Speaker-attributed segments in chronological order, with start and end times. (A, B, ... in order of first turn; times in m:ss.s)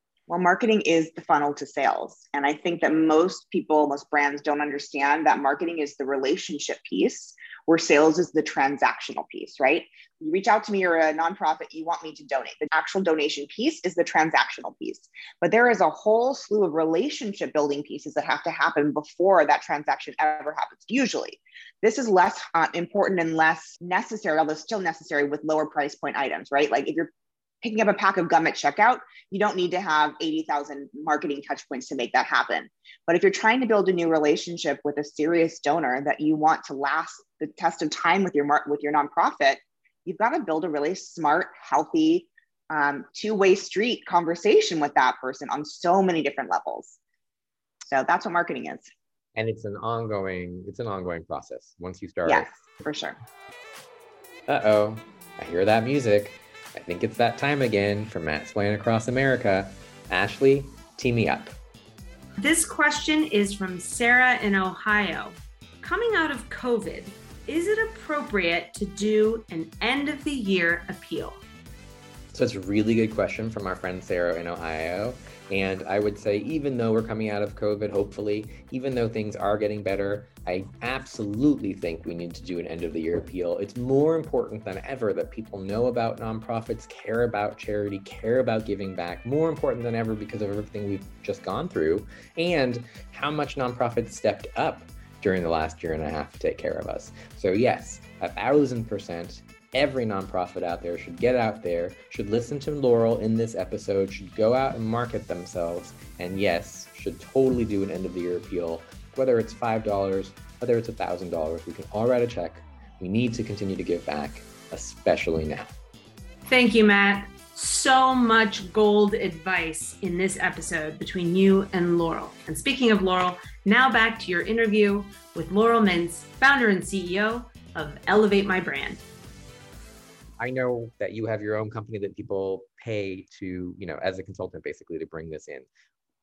0:00.3-0:27.1 A
0:27.6-0:47.0 A
0:47.8-0:48.9 A
0:49.4-0:52.5 B
0:52.2-0:53.2 A
0:54.5-1:01.5 B
1:02.4-1:11.4 C
1:12.3-1:55.7 B
1:56.4-2:09.0 C
2:10.4-2:15.6 B